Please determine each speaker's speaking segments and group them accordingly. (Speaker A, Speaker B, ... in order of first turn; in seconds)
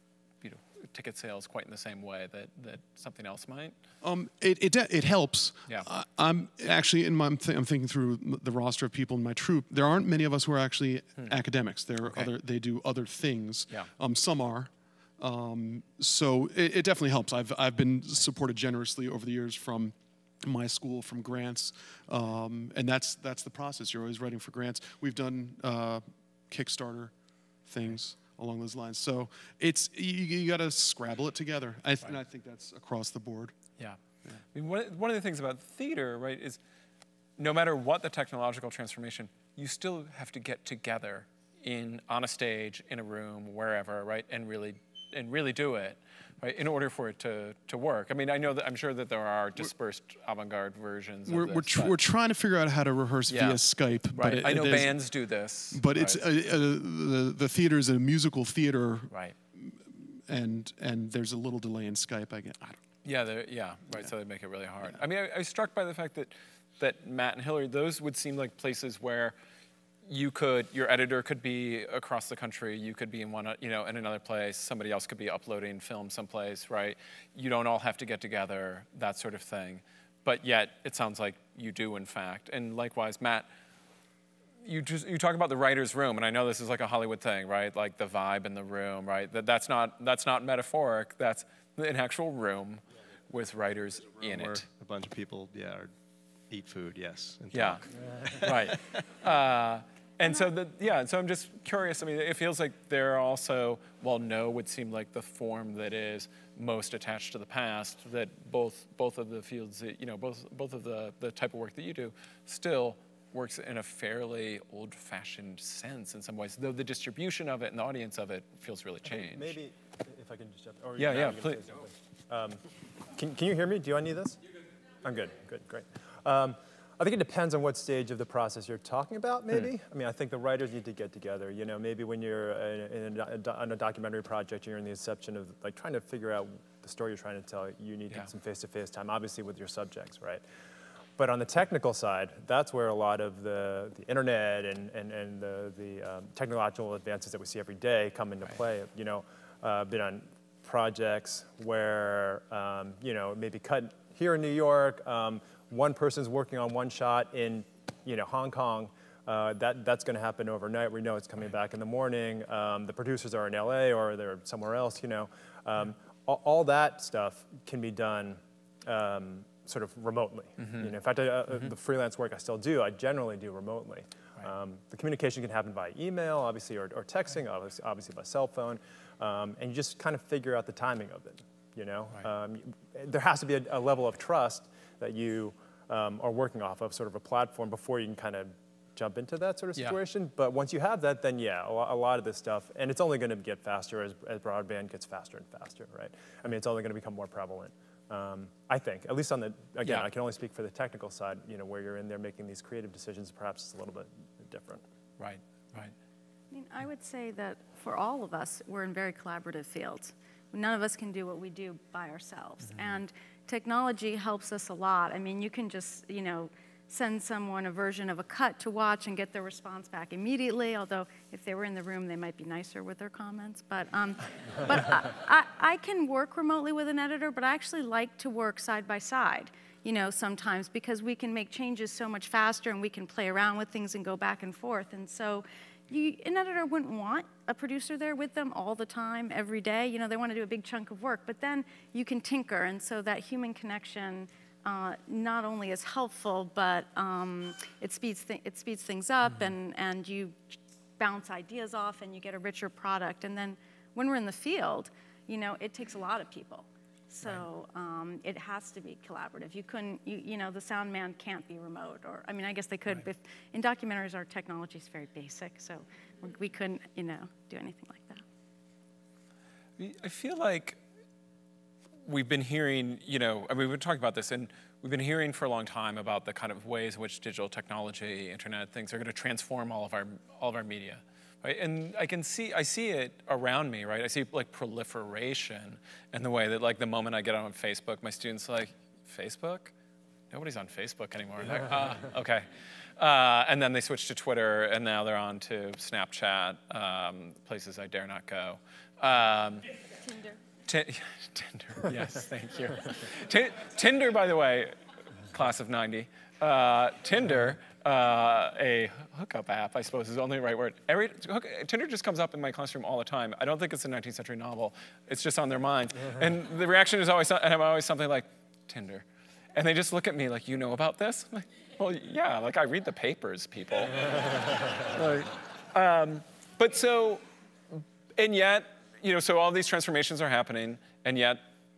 Speaker A: 0.4-3.8, 34.5-36.6, 37.4-52.0, 53.3-53.6, 54.1-56.2, 59.1-59.3, 63.0-69.3, 70.0-83.5, 84.6-94.7, 97.5-119.6, 121.0-121.7, 170.6-170.9, 205.2-205.9, 212.6-212.9, 269.8-270.8, 272.0-289.7, 290.3-292.4, 293.0-299.7, 300.6-304.7, 305.3-327.2, 327.8-331.4
Speaker B: 4.0-33.5, 51.3-55.0, 55.7-62.8
Speaker C: 94.2-95.9, 96.5-98.9
Speaker D: 119.1-122.6, 123.1-124.4, 125.0-140.4, 141.2-204.8
Speaker E: 206.5-268.2, 300.0-300.4